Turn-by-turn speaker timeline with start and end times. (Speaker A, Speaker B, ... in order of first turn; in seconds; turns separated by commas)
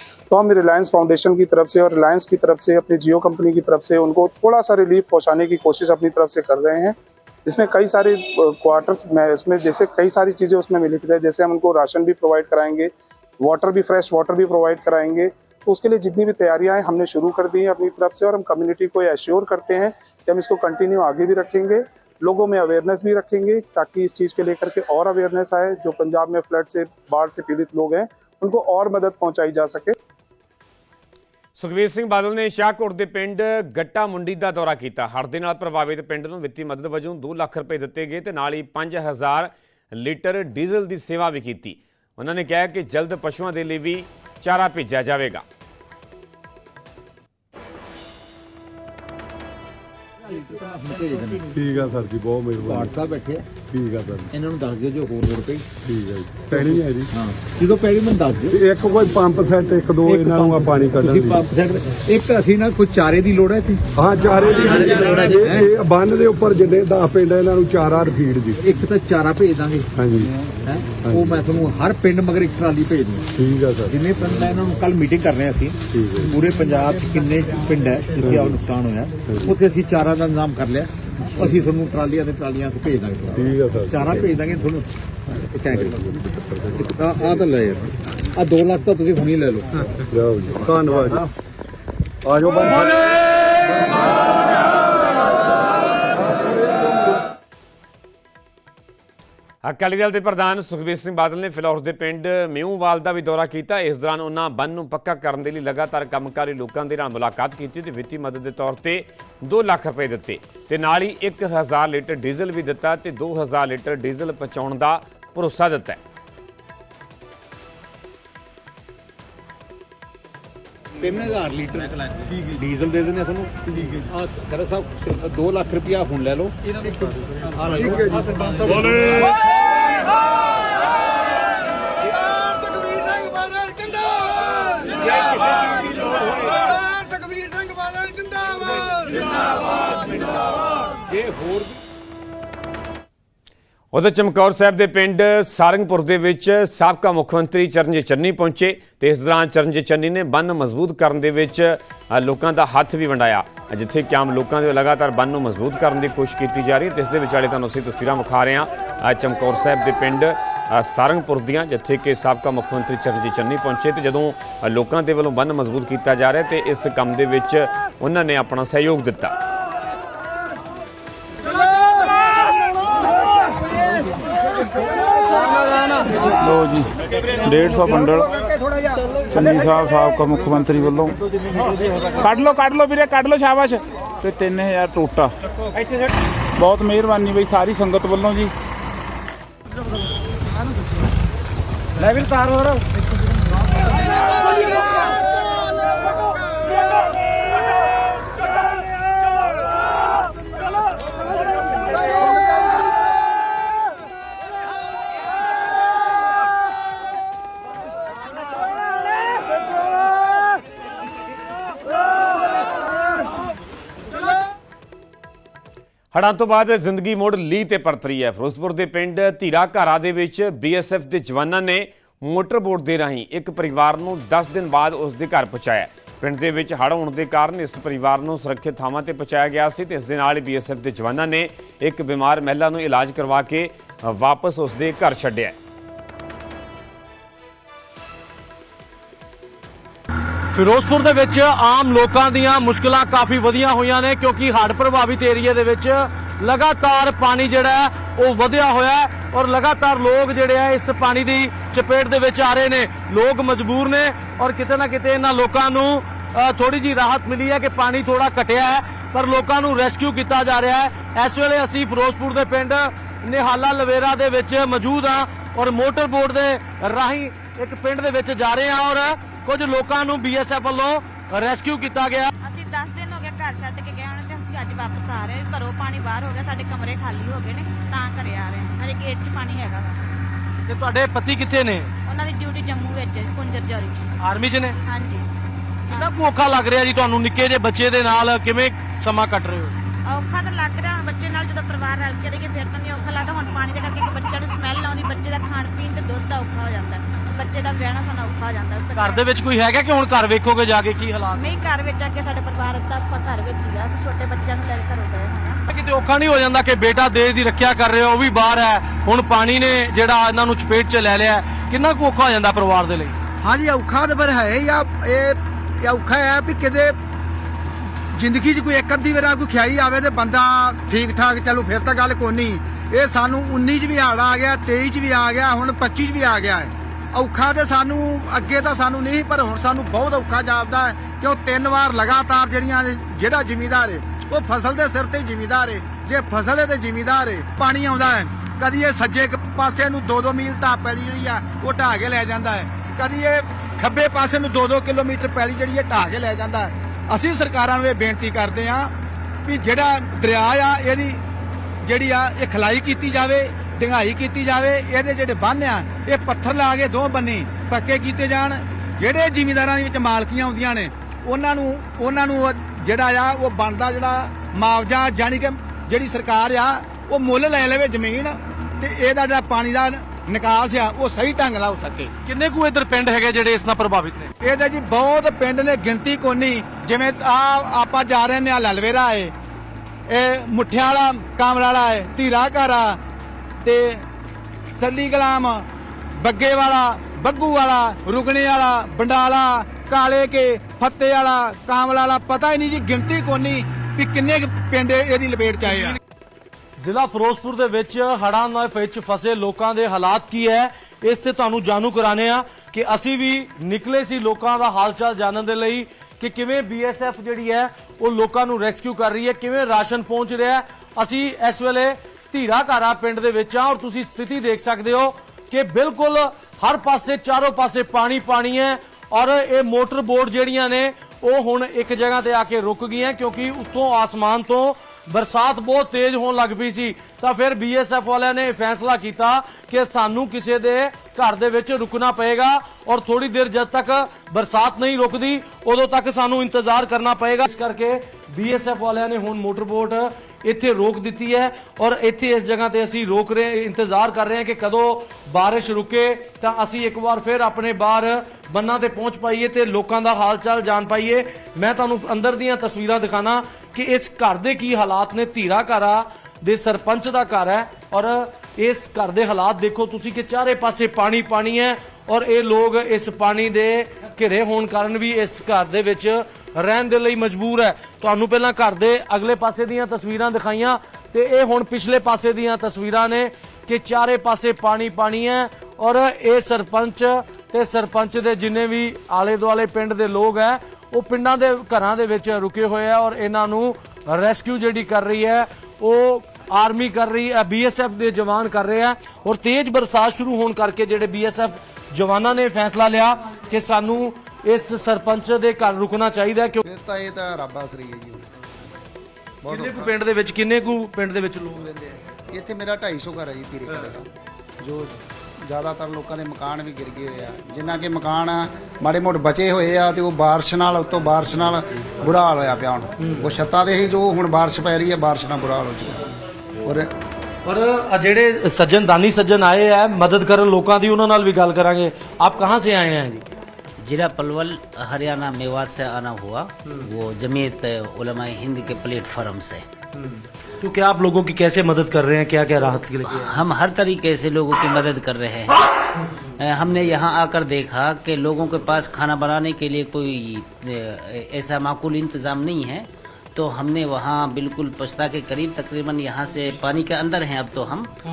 Speaker A: 0.3-30.0, Speaker B: 31.6-45.5, Speaker C: 50.3-51.5, Speaker D: 51.5-53.0, Speaker C: 52.6-53.5, Speaker D: 53.7-54.3, Speaker C: 54.3-55.7, Speaker D: 55.9-57.1, Speaker C: 56.5-58.6, Speaker D: 58.5-61.5, Speaker C: 60.0-63.9, Speaker D: 64.0-68.6, Speaker C: 64.6-65.7, Speaker C: 68.6-73.3, Speaker D: 70.0-70.3, Speaker D: 70.9-71.4, Speaker D: 73.4-74.0, Speaker C: 73.8-84.9, Speaker D: 75.9-76.4, Speaker D: 78.2-78.6, Speaker D: 79.3-79.5, Speaker D: 83.3-84.3, Speaker C: 85.5-86.2, Speaker D: 85.7-87.0, Speaker C: 86.7-89.7, Speaker D: 90.1-91.2, Speaker C: 91.0-91.3, Speaker D: 92.2-93.0, Speaker B: 99.6-116.0, Speaker C: 121.0-129.3, Speaker D: 127.9-128.2, Speaker C: 132.2-134.1, Speaker C: 134.8-140.3, Speaker C: 141.0-141.8, Speaker B: 143.9-169.3, Speaker E: 176.4-178.3, Speaker E: 179.3-181.2, Speaker E: 182.2-185.3, Speaker E: 186.6-188.5, Speaker B: 216.1-235.6, Speaker F: 240.5-272.3, Speaker G: 272.4-280.0, Speaker F: 280.7-281.9, Speaker G: 282.1-284.1, Speaker F: 284.2-284.8, Speaker G: 284.9-285.3, Speaker F: 285.9-289.8, Speaker G: 290.1-299.3, Speaker F: 299.0-301.6, Speaker G: 301.3-305.6, Speaker F: 305.7-313.2, Speaker H: 313.4-317.0, Speaker H: 318.1-348.9, Speaker H: 349.4-351.2, Speaker H: 351.8-372.1, Speaker F: 372.2-374.3, Speaker H: 374.4-379.3, Speaker H: 380.1-383.0, Speaker H: 383.6-384.1, Speaker H: 384.8-385.7, Speaker H: 386.2-396.0, Speaker F: 396.8-496.6, Speaker I: 496.6-498.2, Speaker I: 499.4-499.9, Speaker F: 499.5-501.9, Speaker I: 502.3-504.1, Speaker I: 504.6-516.0, Speaker F: 513.0-513.3, Speaker I: 516.6-516.9, Speaker F: 517.5-523.2, Speaker J: 523.8-529.6, Speaker F: 530.6-533.3, Speaker J: 533.0-535.6, Speaker J: 536.4-547.9